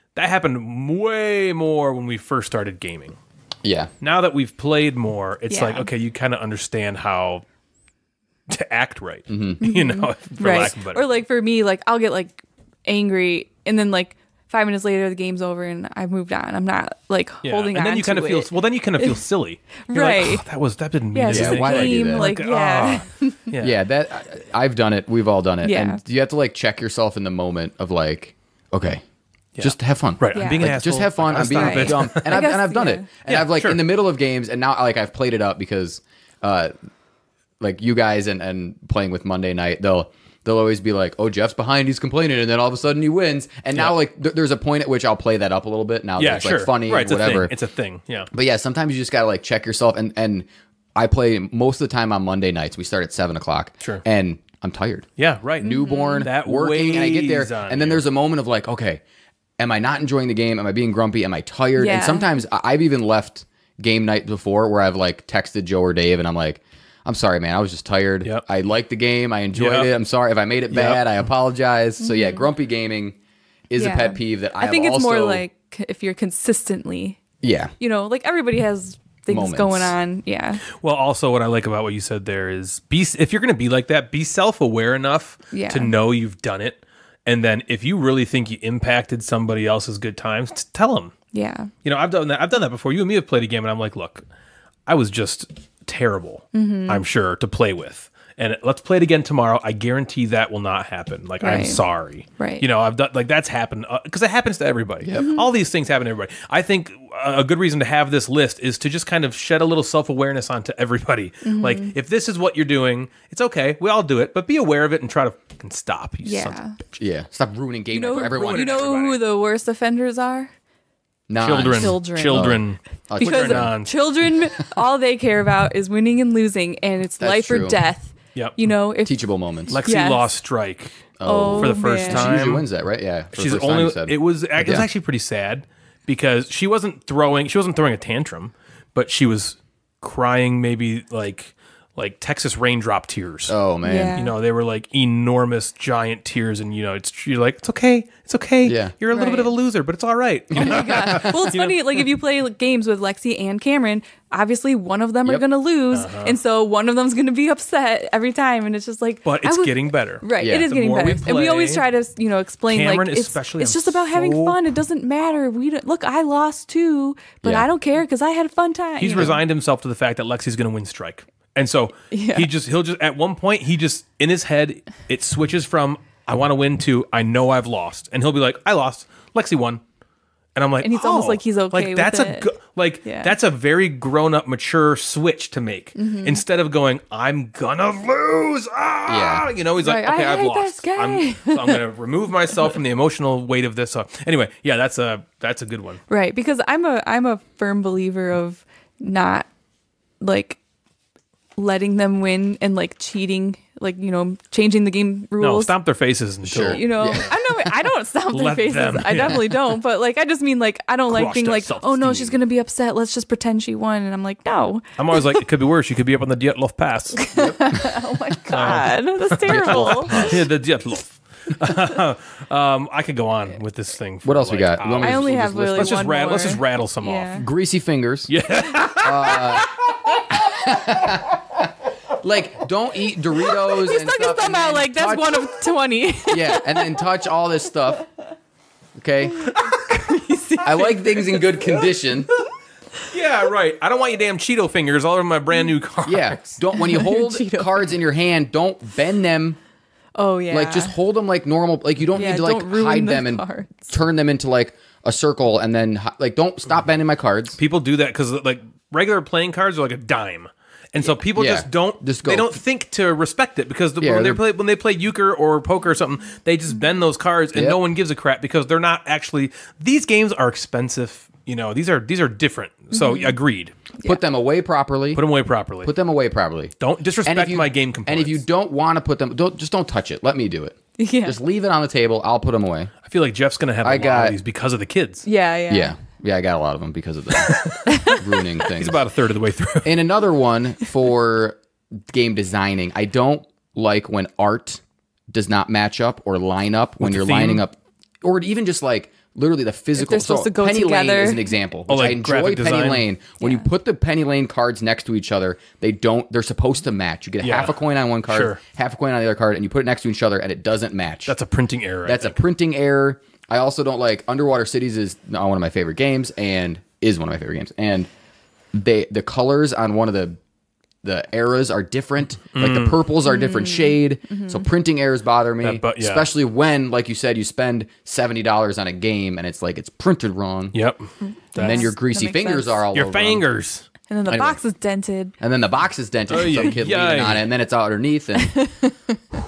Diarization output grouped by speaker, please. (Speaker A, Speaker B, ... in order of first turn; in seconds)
Speaker A: 0.1-3.2, 4.0-7.4, 8.5-11.0, 17.4-23.8, 29.6-32.3, 33.3-33.8, 46.2-48.3, 55.2-58.0, 69.5-69.9, 70.7-71.0, 80.7-91.1, 91.8-94.3, 94.9-117.0, 118.2-119.2, 121.4-123.9, 129.7-132.7, 133.3-143.6, 144.2-151.8, 155.9-156.4, 159.3-161.8, 162.7-164.6, 169.0-179.8, 180.6-196.0, 205.4-209.6, 211.1-212.3, 215.0-217.3, 218.5-227.3, 228.3-230.2, 243.1-246.6, 257.6-273.7, 275.1-275.9, 276.8-278.4, 283.0-285.2, 287.4-290.0, 297.0-297.6, 301.9-303.1, 307.4-307.8, 308.3-308.6, 311.3-312.4, 322.5-323.0, 325.6-326.3, 330.7-331.9, 332.9-333.9, 336.3-337.5
Speaker B: 3.6-3.9, 9.3-9.6, 21.3-22.3, 23.6-29.0, 29.6-36.7, 37.6-47.5, 48.3-55.1, 55.6-59.0, 59.6-73.2, 73.7-75.4, 77.4-77.7, 79.3-79.9, 105.0-105.3, 117.0-118.8, 121.3-123.7, 127.2-127.8, 129.0-129.8, 131.2-134.8, 143.5-144.2, 148.6-148.9, 150.5-151.3, 160.4-160.7, 189.1-189.5, 206.4-207.3, 217.3-217.9, 219.5-220.4, 224.2-226.1, 227.3-228.3, 228.9-229.7, 230.3-231.6, 232.2-235.5, 236.3-238.1, 238.9-239.8, 240.6-242.3, 246.1-249.6, 250.5-257.6, 261.1-262.6, 264.0-264.4, 274.0-275.3, 275.8-276.7, 277.2-282.9, 283.8-284.4, 285.7-289.0, 289.8-311.3, 312.1-318.1, 318.7-320.4, 321.0-330.8, 331.6-333.4, 334.3-334.6, 335.4-338.6
Speaker C: 5.5-5.9, 9.6-19.2, 19.9-20.4, 21.1-23.5, 25.6-26.0, 30.3-30.7, 31.5-33.1, 55.6-56.3, 61.8-62.3, 72.0-72.5, 73.8-77.2, 77.8-80.6, 85.5-85.9, 91.3-91.7, 96.5-97.0, 101.4-101.8, 102.4-102.6, 105.2-105.4, 111.4-111.9, 116.2-116.8, 117.9-120.5, 121.6-129.2, 129.7-130.3, 131.2-132.4, 143.8-144.3, 149.1-149.5, 150.6-169.4, 172.1-172.5, 180.8-182.5, 183.1-183.3, 185.9-186.4, 189.8-191.8, 196.1-199.5, 200.2-200.6, 201.6-205.7, 206.7-215.4, 217.2-220.3, 225.0-227.4, 233.5-237.0, 239.4-241.3, 246.8-247.9, 250.2-250.9, 252.2-253.9, 272.9-273.4, 281.0-281.4, 285.2-285.9, 287.9-288.2, 300.0-301.4, 303.4-303.6, 323.3-324.6, 331.2-332.8, 334.1-335.4, 338.4-339.2